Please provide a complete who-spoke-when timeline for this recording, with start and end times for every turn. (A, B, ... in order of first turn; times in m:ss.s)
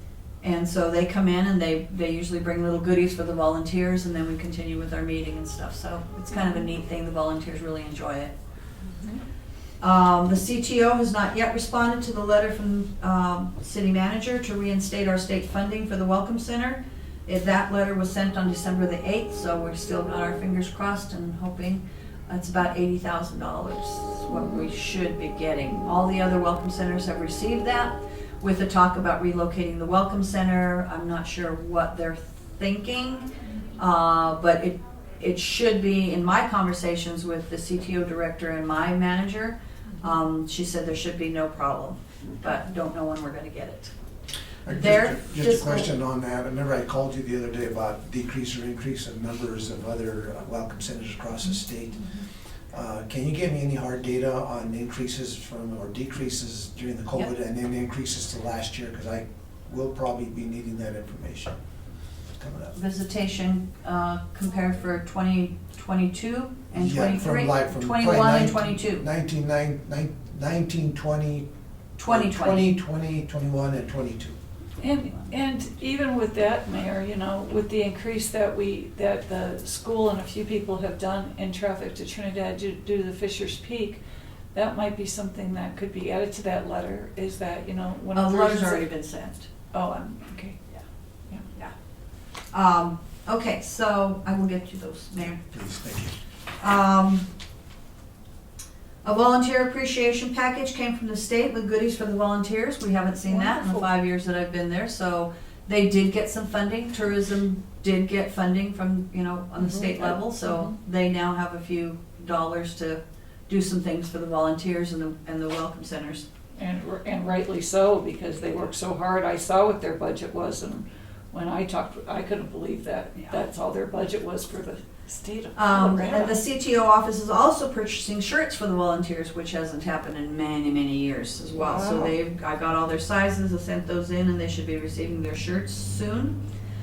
0:00.4-0:08.3 A
0:09.8-0:43.9 A
0:44.7-0:52.1 B
0:44.7-0:45.9 A
0:52.7-1:01.6 B
1:02.4-1:02.8 B
1:02.8-1:09.1 A
1:06.8-1:11.5 B
1:12.0-1:12.8 A
1:12.1-1:14.4 B
1:14.8-1:24.0 C
1:24.5-1:28.8 C
1:28.1-1:29.5 A
1:29.7-1:30.6 C
1:32.5-1:35.4 A
1:35.5-1:36.1 B
1:36.6-1:37.3 A
1:39.0-1:56.3 A
1:43.3-1:43.8 C
1:49.6-1:50.7 C
1:56.6-2:06.4 C
2:05.6-2:16.4 A
2:11.6-2:12.1 C